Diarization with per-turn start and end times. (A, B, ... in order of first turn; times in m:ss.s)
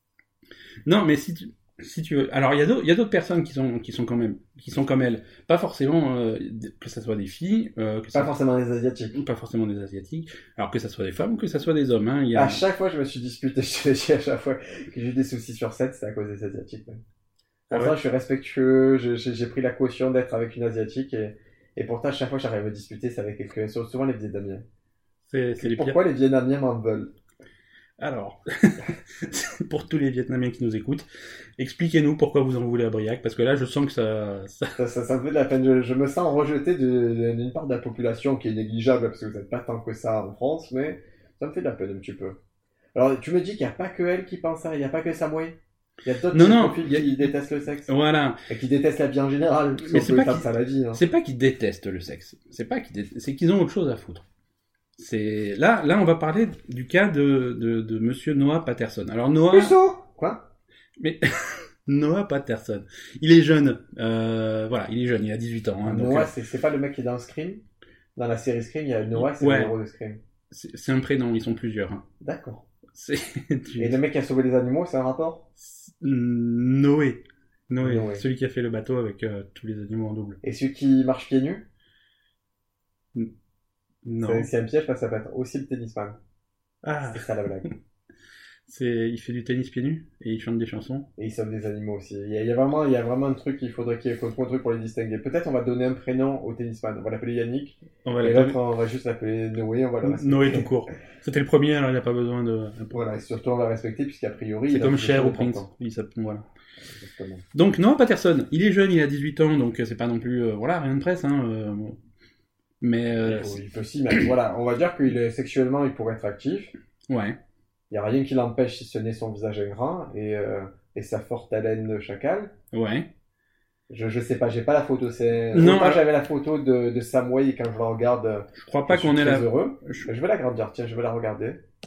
0:00.8-0:08.3 A
0:08.1-0:09.2 B
0:09.1-0:12.6 A
0:12.3-0:17.0 B
0:17.7-0:24.6 B
0:17.7-0:18.0 A
0:25.2-0:26.0 A
0:25.6-0:27.1 B
0:28.0-0:31.0 A
0:31.6-0:34.8 A
0:34.8-0:42.4 B
0:42.9-0:47.9 B
0:46.3-0:47.3 A
0:47.9-0:48.4 A
0:48.5-0:51.0 B
0:49.8-0:54.2 A
0:55.0-0:59.8 A
0:59.5-1:00.5 B
1:01.0-1:06.3 A
1:05.8-1:07.6 B
1:08.2-1:10.2 B
1:09.1-1:09.7 A
1:10.5-1:12.0 A
1:12.2-1:12.6 B
1:12.9-1:14.0 A
1:13.8-1:15.5 B
1:15.6-1:20.4 A
1:17.8-1:18.2 B
1:20.4-1:21.7 B
1:24.0-1:24.5 A
1:24.2-1:26.2 B
1:26.8-1:27.3 A
1:27.1-1:27.8 B
1:28.7-1:31.1 A
1:31.2-1:40.7 B
1:38.0-1:38.6 A
1:40.0-1:43.0 A
1:42.9-1:45.7 B
1:44.7-1:46.4 A
1:46.9-1:47.4 B
1:47.5-1:52.0 A
1:52.8-1:53.6 A
1:53.2-1:56.7 B
1:57.1-1:57.4 A
1:57.9-2:02.5 B
2:02.7-2:03.1 A
2:03.9-2:11.6 B
2:05.5-2:06.0 A
2:08.6-2:10.1 A